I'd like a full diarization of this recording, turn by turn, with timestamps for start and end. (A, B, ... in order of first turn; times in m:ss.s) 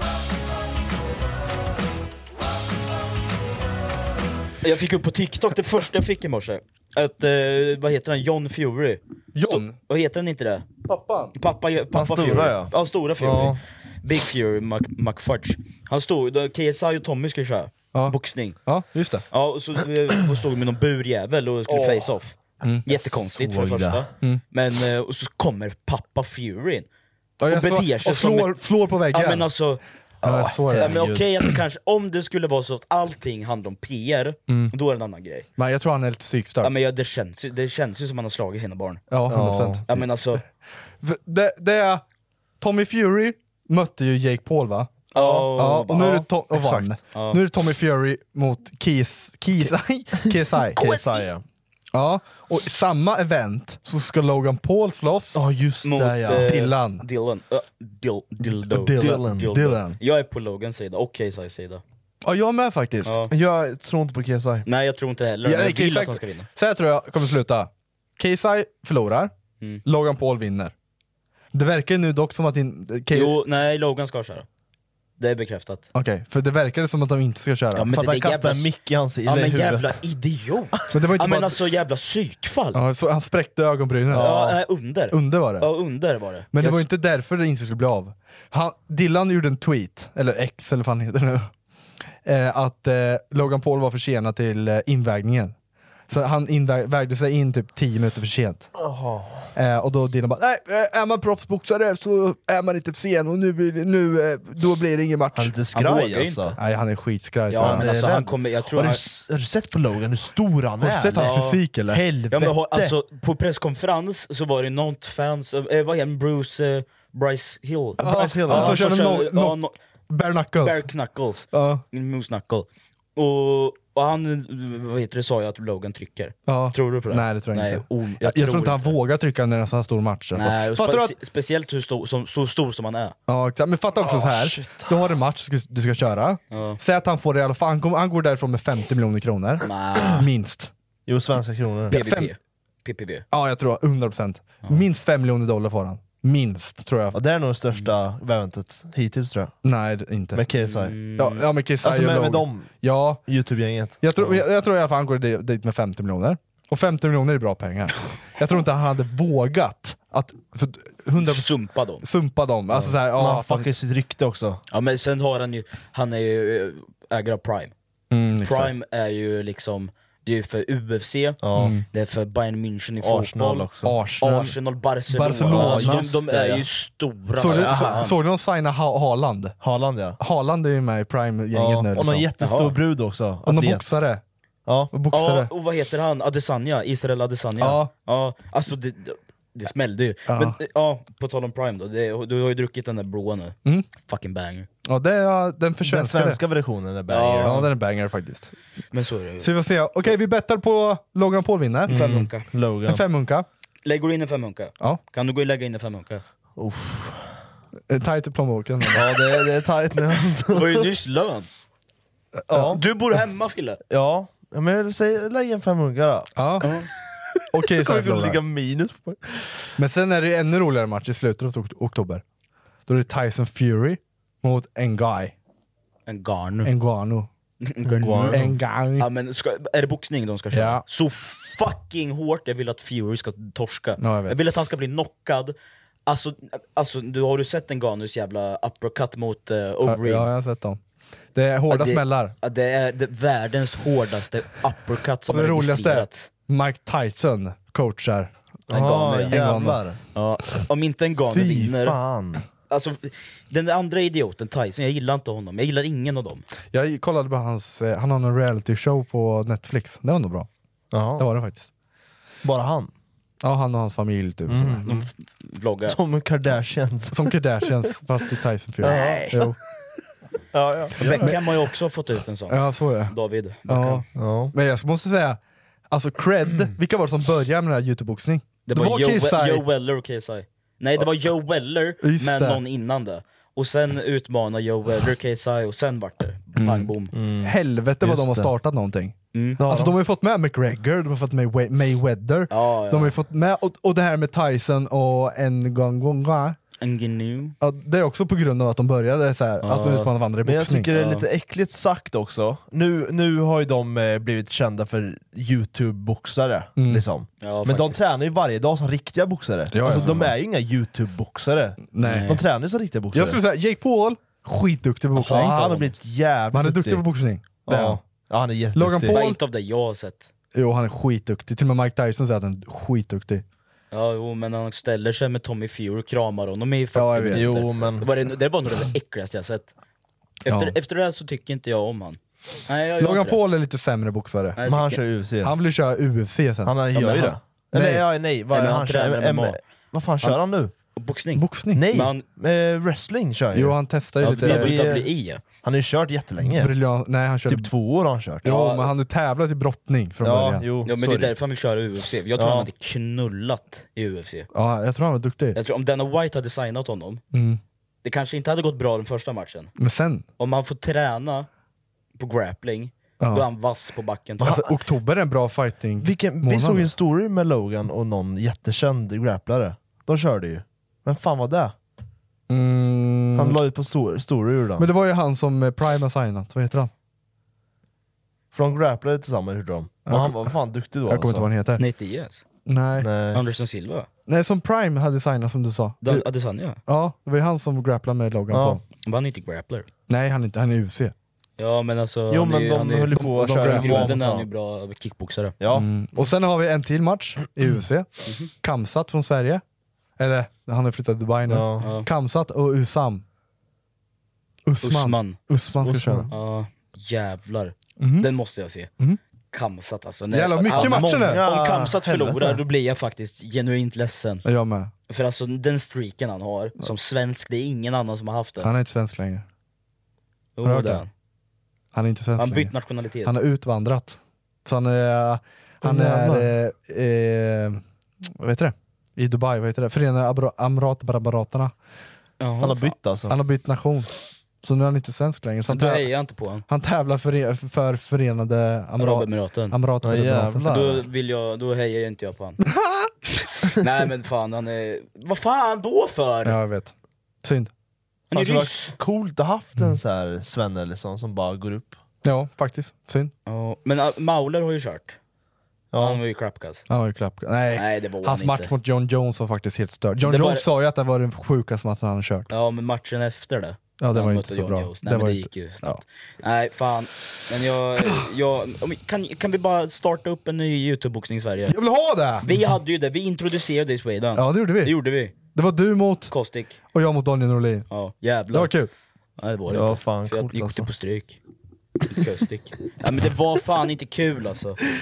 0:04.6-0:10.7 A
0:09.3-0:09.7 B
0:10.9-0:11.3 B
0:11.3-0:18.6 A
0:11.9-0:13.6 C
0:17.9-0:19.2 B
0:19.3-0:26.9 A
0:21.7-0:22.1 C
0:22.9-0:24.0 C
0:27.4-0:29.5 B
0:27.5-0:29.8 A
0:30.2-0:31.2 C
0:30.2-0:31.0 B
0:30.7-0:35.4 A
0:35.6-0:36.7 B
0:36.6-0:39.0 A
0:39.1-0:39.8 B
0:39.3-0:39.8 C
0:39.9-0:40.4 A
0:41.0-0:42.0 B
0:42.6-0:44.9 B
0:45.1-0:46.2 A
0:45.1-0:45.5 C
0:45.5-0:50.8 B
0:46.0-0:46.9 C
0:47.1-0:47.4 A
0:50.5-0:51.4 C
0:51.9-0:55.4 B
0:55.3-0:56.7 C
0:55.8-1:01.8 A
0:56.4-0:57.0 B
0:58.4-1:00.0 B
0:58.9-0:59.7 C
1:02.2-1:03.2 B
1:03.0-1:03.3 A
1:03.3-1:04.6 C
1:04.6-1:06.5 A
1:05.4-1:09.3 B
1:09.8-1:10.7 B
1:11.5-1:13.3 B
1:13.1-1:14.4 A
1:15.2-1:15.8 A
1:15.9-1:17.9 B
1:17.7-1:18.7 A
1:17.9-1:20.0 C
1:19.2-1:22.8 A
1:20.9-1:21.5 B
1:22.7-1:24.4 B
1:24.1-1:24.6 C
1:24.1-1:26.8 A
1:25.1-1:25.7 B
1:26.5-1:31.5 B
1:32.2-1:35.5 B
1:36.1-1:38.7 B
1:38.8-1:39.5 C
1:39.5-1:45.5 B
1:45.3-1:46.6 C
1:45.7-1:46.5 A
1:46.6-1:48.3 B
1:47.5-1:49.0 A
1:47.6-1:52.9 C
1:50.8-1:52.0 B
1:51.1-1:51.6 A
1:52.3-1:59.7 A
1:58.0-1:59.0 C
1:58.0-1:59.6 B
2:00.1-2:00.9 B
2:00.6-2:09.0 A
2:01.5-2:01.8 B
2:06.5-2:11.1 B
2:10.3-2:13.1 A
2:13.3-2:20.7 B
2:14.0-2:15.0 C
2:16.5-2:16.8 A
2:19.6-2:20.3 A
2:21.1-2:22.0 C
2:21.9-2:22.3 B
2:21.9-2:23.2 A
2:23.3-2:27.2 B
2:27.1-2:29.5 C
2:29.6-2:30.4 B
2:30.3-2:30.9 C
2:30.5-2:31.4 A
2:31.2-2:33.2 B
2:31.8-2:32.7 C
2:33.2-2:34.0 C
2:34.0-2:43.7 B
2:41.2-2:42.0 A
2:43.0-2:44.6 C
2:44.7-2:47.7 A
2:48.1-2:48.7 B
2:48.4-2:51.4 A
2:51.4-2:51.8 C
2:51.5-2:51.8 B
2:51.9-2:53.7 A
2:53.0-2:54.0 C
2:53.8-2:54.6 B
2:54.2-2:58.1 A
2:55.1-2:56.3 B
2:55.5-2:56.6 C
2:57.4-2:59.5 B
2:57.4-2:58.0 C
2:59.6-3:00.2 C
3:00.2-3:02.3 B
3:01.5-3:04.0 C
3:02.4-3:02.8 A
3:03.4-3:04.2 B
3:04.7-3:04.9 C
3:04.9-3:05.5 B
3:05.1-3:14.7 A
3:07.6-3:07.9 B
3:10.3-3:10.6 B
3:14.8-3:16.4 B
3:15.8-3:17.7 C
3:17.1-3:17.7 A
3:17.4-3:18.5 B
3:18.9-3:19.5 A
3:19.4-3:23.4 B
3:21.8-3:23.0 C
3:21.9-3:22.4 A
3:23.8-3:26.2 A
3:26.6-3:27.2 C
3:27.9-3:29.2 B
3:28.9-3:30.9 C
3:30.5-3:31.5 A
3:32.5-3:32.8 C
3:32.6-3:33.8 A
3:33.9-3:37.2 C
3:36.4-3:36.7 B
3:37.5-3:38.4 B
3:37.7-3:39.6 C
3:39.8-3:42.2 B
3:42.9-3:45.3 B
3:46.1-3:46.7 A
3:46.6-3:47.3 B
3:47.6-3:48.4 A
3:47.8-3:48.6 C
3:48.0-3:49.1 B
3:49.0-3:55.5 A
3:50.5-3:50.8 B
3:54.0-3:54.4 B
3:56.0-4:00.3 A
3:59.8-4:00.8 B
4:01.3-4:02.3 B
4:01.7-4:06.3 A
4:05.3-4:08.3 B
4:08.7-4:12.0 A
4:08.7-4:10.0 C
4:09.3-4:09.8 B
4:11.3-4:12.4 C
4:12.7-4:16.4 A
4:16.7-4:20.5 B
4:20.9-4:21.3 C
4:21.2-4:21.7 B
4:22.4-4:22.9 C
4:23.4-4:24.8 B
4:24.5-4:25.0 C
4:24.8-4:26.0 A
4:25.8-4:27.7 C
4:27.1-4:29.6 B
4:28.8-4:29.5 C
4:28.9-4:29.2 A
4:30.5-4:31.4 C
4:31.0-4:34.0 A
4:32.5-4:33.1 B
4:33.7-4:35.4 B
4:34.2-4:34.5 C
4:35.9-4:39.6 B
4:38.6-4:47.1 A
4:42.0-4:42.6 B
4:46.6-4:56.6 B
4:47.1-4:48.5 C
4:49.3-4:49.6 A
4:49.6-4:50.0 C
4:52.5-4:53.2 A
4:56.8-4:57.5 A
4:57.6-5:00.9 B
4:59.6-5:00.1 A
5:00.4-5:13.4 C
5:00.9-5:01.3 A
5:06.8-5:07.0 B
5:07.4-5:08.0 A
5:09.7-5:10.4 B
5:11.9-5:12.4 B
5:12.0-5:12.4 A
5:13.1-5:15.9 B
5:15.2-5:17.0 C
5:15.2-5:15.9 A
5:16.5-5:18.0 B
5:17.6-5:19.2 C
5:18.7-5:19.4 B
5:19.1-5:20.3 A
5:20.5-5:23.4 B
5:23.9-5:29.7 A
5:26.9-5:27.6 B
5:27.3-5:28.1 C
5:30.4-5:33.4 A
5:30.5-5:30.8 B
5:33.0-5:34.6 B
5:34.6-5:35.0 A
5:34.6-5:35.5 C
5:35.4-5:38.0 B
5:36.6-5:40.7 C
5:36.9-5:37.3 A
5:38.5-5:39.6 A
5:41.0-5:42.2 A
5:41.3-5:42.0 B
5:41.7-5:45.1 C
5:43.5-5:44.9 B
5:44.2-5:45.4 A
5:45.6-5:46.7 C
5:46.4-5:47.7 B
5:47.5-5:48.4 C
5:48.4-5:50.7 B
5:48.4-5:48.9 A
5:50.2-5:51.3 C
5:50.8-5:54.5 A
5:52.4-5:52.7 C
5:54.5-5:55.6 B
5:55.5-5:57.2 A
5:57.3-5:57.6 B
5:58.0-5:59.7 A
5:59.8-6:00.2 B
6:00.4-6:01.5 A
6:02.2-6:04.6 A
6:03.2-6:03.4 B
6:04.4-6:04.7 C
6:04.4-6:06.9 B
6:06.0-6:11.7 C
6:12.5-6:13.6 B
6:13.3-6:14.9 C
6:14.8-6:16.9 B
6:18.5-6:21.5 C
6:20.1-6:21.8 B
6:21.8-6:22.4 A
6:22.7-6:23.1 B
6:23.0-6:23.4 C
6:23.3-6:24.1 A
6:24.3-6:26.2 B
6:26.0-6:26.8 A
6:26.9-6:28.8 B
6:28.5-6:28.8 C
6:29.0-6:29.9 A
6:30.1-6:31.1 B
6:31.6-6:35.5 A
6:32.3-6:34.5 C
6:33.3-6:34.2 B
6:35.6-6:36.2 C
6:35.7-6:38.1 B
6:38.2-6:38.5 A
6:38.6-6:39.6 B
6:40.2-6:43.2 B
6:41.5-6:41.9 C
6:41.8-6:42.1 A
6:44.7-6:46.3 B
6:44.8-6:45.4 A
6:45.7-6:46.3 C
6:46.3-6:48.9 A
6:48.0-6:48.3 B
6:49.5-6:54.4 A
6:50.3-6:51.4 B
6:50.7-6:52.6 C
6:54.4-6:54.9 B
6:55.1-6:58.7 A
6:58.6-6:59.4 B
7:00.6-7:01.1 A
7:00.6-7:01.0 B
7:01.9-7:02.7 B
7:02.4-7:03.3 A
7:03.2-7:11.7 B
7:05.8-7:06.5 C
7:12.4-7:12.9 A
7:12.6-7:13.4 C
7:13.3-7:16.1 B
7:15.7-7:16.6 A
7:16.7-7:20.7 B
7:19.0-7:19.7 A
7:20.0-7:21.1 C
7:20.7-7:22.6 A
7:22.6-7:23.1 B
7:23.8-7:26.6 A
7:26.4-7:26.9 B
7:27.4-7:27.7 B
7:28.3-7:29.0 A
7:28.3-7:32.0 C
7:32.2-7:33.3 B
7:33.4-7:35.2 A
7:35.9-7:36.2 C
7:36.0-7:36.8 A
7:36.9-7:42.5 B
7:37.7-7:38.7 A
7:40.2-7:40.6 A
7:42.5-7:51.8 A
7:44.0-7:46.0 B
7:51.7-7:52.5 B
7:52.4-7:55.3 A
7:54.4-7:56.3 B
7:56.3-7:56.8 A
7:56.9-7:57.9 B
7:57.9-7:58.7 A
7:58.5-7:58.9 B
7:59.4-8:01.4 A
7:59.7-8:00.9 C
8:02.1-8:04.8 A